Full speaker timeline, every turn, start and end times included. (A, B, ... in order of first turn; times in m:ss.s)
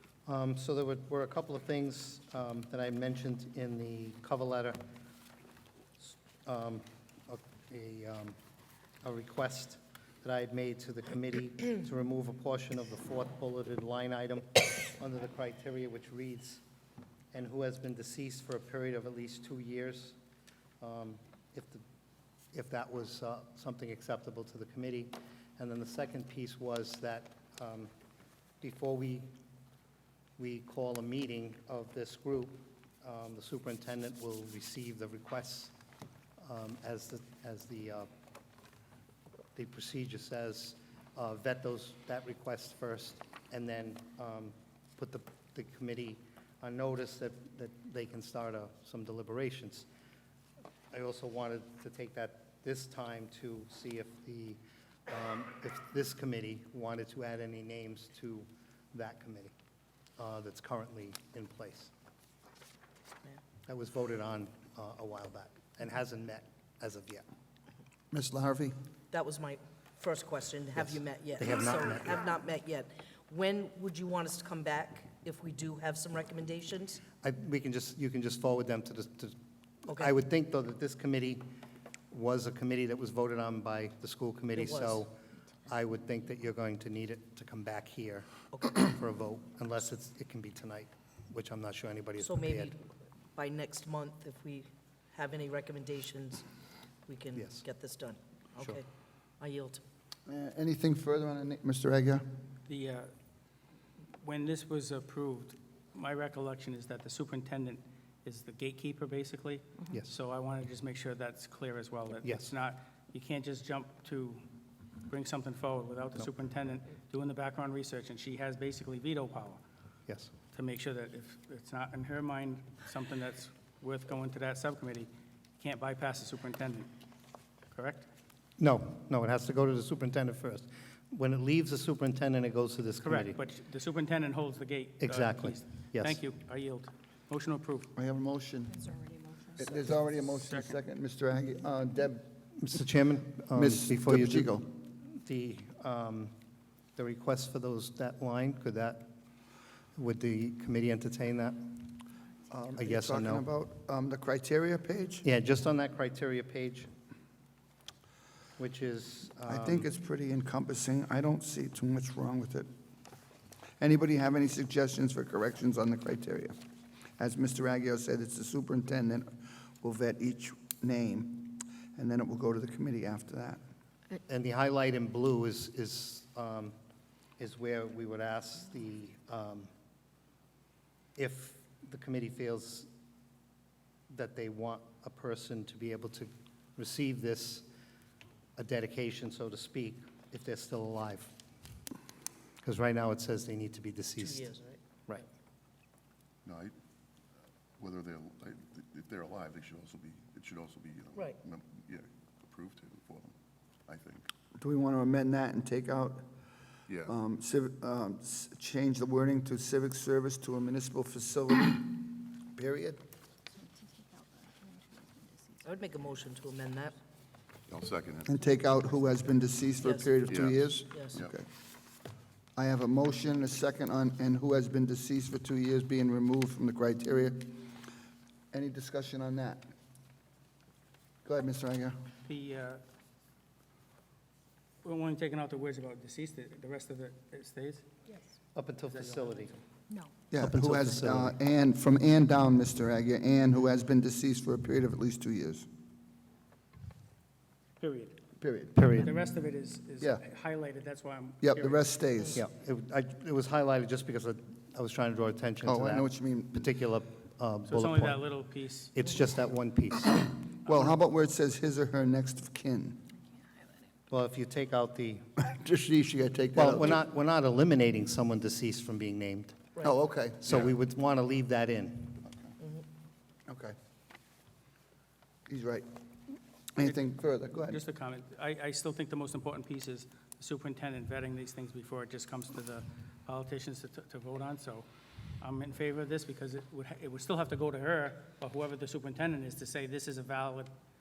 0:00.2-0:04.8 A
0:06.0-0:08.4 A
0:09.0-0:16.6 A
0:17.3-0:20.2 A
0:20.8-0:21.8 A
0:22.5-0:27.9 A
0:28.6-0:29.3 A
0:30.4-0:35.7 A
0:36.4-0:38.1 A
0:39.5-0:49.8 A
0:50.9-0:59.5 A
1:00.2-1:01.9 A
1:03.6-1:07.2 A
1:08.1-1:08.7 B
1:09.1-1:17.0 C
1:10.8-1:12.2 A
1:17.2-1:21.4 A
1:22.1-1:25.1 A
1:24.5-1:25.0 C
1:25.6-1:32.7 A
1:28.5-1:28.8 C
1:32.2-1:32.8 C
1:33.3-1:36.4 C
1:37.0-1:38.8 C
1:37.4-1:37.6 A
1:39.4-1:39.8 C
1:40.3-1:42.2 B
1:42.7-1:43.1 D
1:44.2-1:54.4 D
1:52.2-1:52.5 A
1:55.1-1:59.6 D
2:00.1-2:00.3 A
2:00.5-2:05.1 D
2:05.6-2:06.9 D
2:07.7-2:08.0 D
2:08.6-2:13.4 A
2:13.0-2:17.9 D
2:15.0-2:16.2 A
2:18.0-2:18.9 B
2:19.5-2:22.2 B
2:20.4-2:20.8 D
2:22.6-2:26.3 A
2:23.5-2:24.6 B
2:27.0-2:29.1 A
2:30.0-2:32.0 A
2:32.5-2:35.3 B
2:32.7-2:33.4 A
2:35.2-2:36.9 A
2:38.6-2:39.9 A
2:39.4-2:42.7 B
2:43.8-2:46.6 B
2:47.2-2:53.6 B
2:54.2-2:56.7 A
2:57.4-2:59.7 A
3:01.2-3:02.9 A
3:04.1-3:07.7 A
3:08.6-3:11.3 A
3:12.6-3:14.5 A
3:14.2-3:14.8 C
3:16.4-3:16.7 E
3:17.8-3:23.3 E
3:23.9-3:24.3 E
3:24.6-3:26.2 B
3:26.9-3:27.1 E
3:27.0-3:33.0 B
3:35.6-3:37.0 C
3:37.7-3:38.4 E
3:38.2-3:41.4 B
3:39.8-3:40.2 C
3:40.3-3:41.3 E
3:40.9-3:41.2 C
3:42.6-3:47.6 B
3:48.5-3:49.6 B
3:51.2-3:52.0 B
3:52.2-3:52.8 D
3:54.8-3:57.9 D
3:58.5-3:59.5 A
3:58.9-3:59.6 D
4:00.3-4:05.6 B
4:00.4-4:01.4 A
4:07.8-4:08.2 D
4:08.4-4:08.8 B
4:08.7-4:09.1 A
4:08.9-4:11.9 D
4:11.4-4:12.4 B
4:12.3-4:18.3 A
4:15.6-4:16.7 B
4:17.7-4:18.9 D
4:18.9-4:20.3 A
4:20.6-4:23.0 B
4:24.1-4:25.3 A
4:25.4-4:27.0 B
4:26.6-4:29.7 A
4:29.8-4:30.7 B
4:30.4-4:32.2 A
4:32.6-4:32.8 C
4:33.5-4:33.8 B
4:35.5-4:35.8 B
4:36.7-4:37.8 B
4:37.6-4:44.9 D
4:45.4-4:50.7 D